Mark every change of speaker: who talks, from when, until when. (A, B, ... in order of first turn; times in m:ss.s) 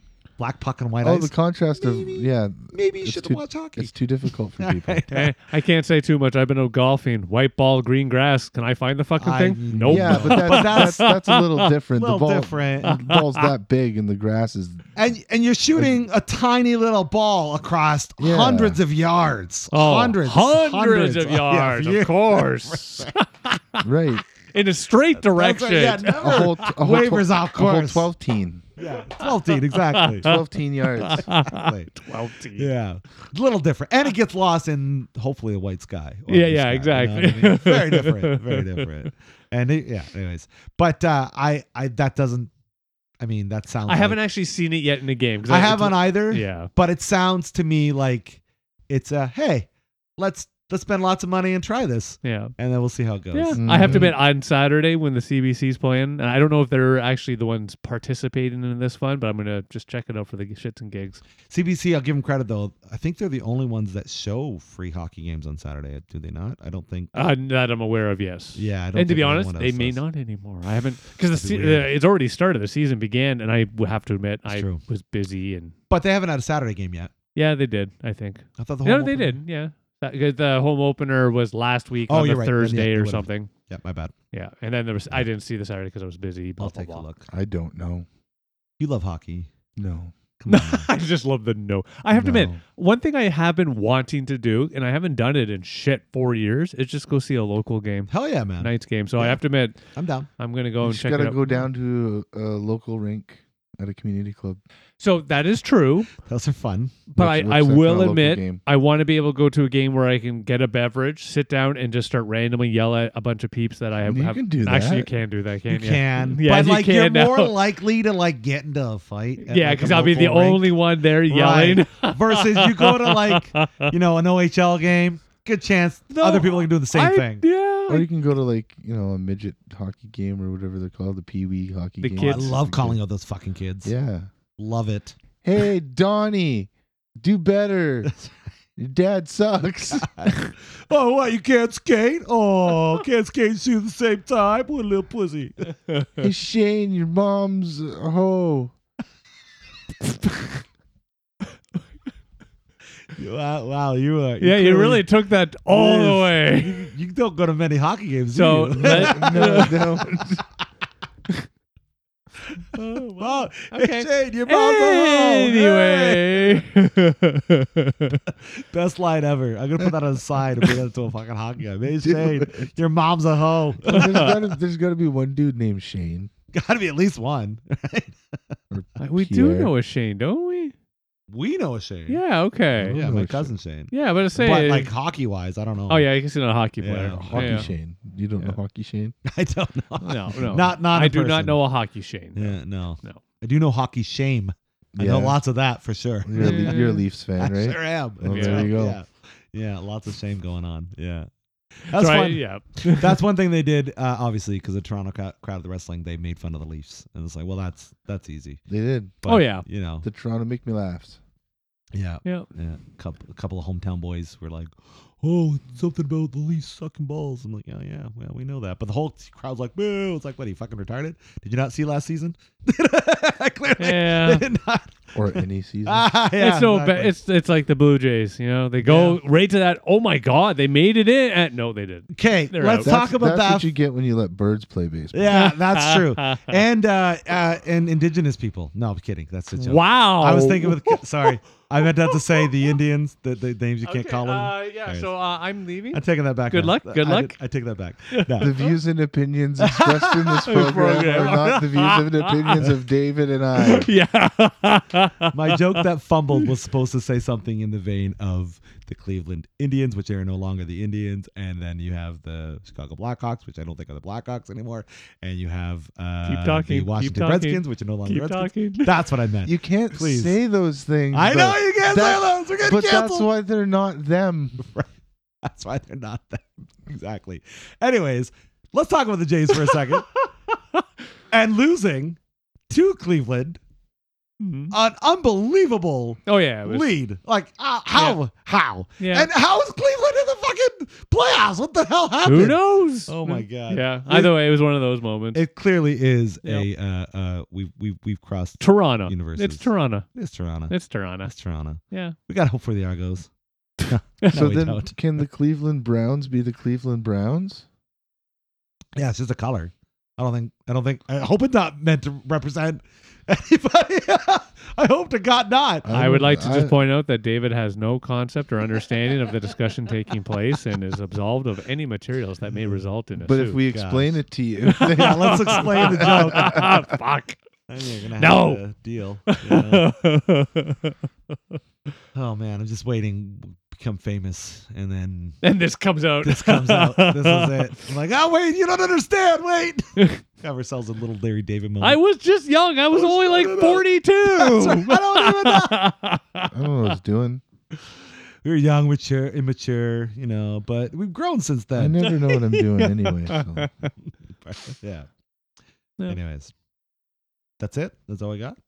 0:00.4-0:03.9 A
0:01.0-0:05.1 B
0:04.6-0:05.3 A
0:05.1-0:11.7 C
0:09.2-0:11.0 A
0:09.8-0:14.9 B
0:12.0-0:13.0 A
0:12.9-0:13.5 C
0:15.0-0:23.2 A
0:15.8-0:16.0 B
0:18.2-0:18.8 B
0:19.7-0:23.9 C
0:23.8-0:24.2 B
0:24.5-0:26.7 C
0:25.2-0:28.1 A
0:26.2-0:28.7 B
0:28.8-0:30.3 A
0:29.2-0:30.4 C
0:30.2-0:31.3 B
0:30.9-0:32.7 C
0:31.1-0:31.9 A
0:32.6-0:42.5 A
0:36.3-0:38.9 C
0:43.2-0:44.2 A
0:43.9-0:46.7 C
0:45.5-0:54.1 A
0:52.2-0:52.5 C
0:53.3-1:01.2 C
0:53.6-0:54.2 B
1:01.5-1:07.2 A
1:07.1-1:15.8 C
1:08.6-1:10.0 A
1:11.3-1:11.9 A
1:14.5-1:14.8 A
1:15.9-1:17.1 A
1:17.4-1:23.5 C
1:18.6-1:19.4 A
1:22.1-1:24.1 A
1:24.3-1:27.0 C
1:26.6-1:27.3 A
1:27.3-1:28.1 B
1:28.8-1:29.5 A
1:29.8-1:30.2 B
1:30.4-1:30.9 A
1:30.5-1:41.6 C
1:32.1-1:32.6 B
1:38.1-1:39.4 A
1:39.9-1:40.3 A
1:40.8-1:44.6 B
1:45.0-1:46.1 C
1:46.3-1:47.0 A
1:47.1-1:57.6 C
1:47.2-1:48.6 B
1:54.0-1:55.1 B
1:55.7-2:00.7 A
1:59.4-2:03.9 C
2:01.3-2:07.4 A
2:06.1-2:08.1 C
2:07.9-2:13.0 B
2:12.0-2:12.6 C
2:12.2-2:13.9 A
2:13.8-2:14.3 B
2:14.6-2:15.2 A
2:15.4-2:18.1 B
2:18.1-2:18.3 A
2:18.8-2:20.5 B
2:20.0-2:25.7 A
2:26.2-2:28.7 B
2:30.2-2:30.6 C
2:33.2-2:35.1 A
2:34.4-2:36.9 C
2:35.7-2:39.8 A
2:38.3-2:40.2 C
2:38.8-2:40.4 B
2:42.7-2:48.3 C
2:43.2-2:46.6 A
2:48.5-2:54.3 A
2:52.0-2:52.7 B
2:53.8-2:56.3 B
2:53.9-2:54.4 C
2:56.5-2:58.6 A
2:58.7-2:59.7 B
2:59.0-3:00.7 C
3:01.3-3:02.2 A
3:02.1-3:03.0 C
3:02.8-3:03.6 B
3:02.8-3:06.0 A
3:03.9-3:04.9 C
3:05.9-3:07.7 C
3:06.8-3:07.7 A
3:07.3-3:09.2 B
3:09.2-3:11.6 A
3:10.0-3:13.2 C
3:12.4-3:16.8 A
3:15.0-3:15.4 B
3:16.2-3:19.0 B
3:16.4-3:17.0 C
3:17.4-3:21.3 A
3:18.3-3:18.8 C
3:21.8-3:28.6 A
3:21.9-3:23.2 C
3:28.7-3:29.2 B
3:29.2-3:30.1 A
3:29.3-3:29.7 C
3:30.0-3:31.2 B
3:31.9-3:47.1 A
3:43.8-3:44.5 C
3:45.2-3:46.1 B
3:46.4-3:52.9 C
3:48.8-3:49.2 A
3:52.1-3:53.7 A
3:52.8-3:55.5 B
3:55.1-4:05.1 A
3:55.3-3:56.6 C
3:59.6-4:01.3 C
4:02.0-4:02.7 C
4:03.8-4:07.4 C
4:05.9-4:08.6 A
4:08.1-4:08.7 C
4:08.4-4:13.9 B
4:09.7-4:10.6 A
4:10.5-4:12.8 C
4:13.6-4:15.8 C
4:15.3-4:30.4 A
4:26.3-4:29.0 C
4:29.4-4:34.6 B
4:31.1-4:33.3 A
4:34.6-4:34.9 A
4:35.4-4:40.1 A
4:39.5-4:40.8 C
4:41.3-4:42.2 A
4:42.7-4:43.6 A
4:44.4-4:44.7 C
4:44.7-4:54.4 A
4:46.3-4:46.9 C
4:49.0-4:49.3 C
4:52.2-4:55.4 C
4:55.3-5:03.3 A
4:58.6-5:00.1 C
5:00.7-5:01.3 C
5:01.9-5:02.2 C
5:03.9-5:05.0 A
5:04.3-5:07.7 B
5:09.0-5:15.9 A
5:15.8-5:16.8 B
5:15.9-5:23.6 C
5:23.2-5:26.8 B
5:23.7-5:24.2 A
5:24.7-5:27.4 C
5:24.9-5:26.8 A
5:27.7-5:29.8 A
5:28.2-5:28.6 C
5:29.3-5:31.4 C
5:32.1-5:35.4 A
5:35.4-5:37.7 C
5:36.2-5:42.0 A
5:41.8-5:46.5 C
5:42.9-5:45.8 A
5:46.5-5:47.4 B
5:48.4-5:52.1 A
5:51.8-5:53.7 B
5:52.0-5:53.9 C
5:54.0-5:55.1 A
5:56.1-5:56.5 A
5:57.6-5:58.6 A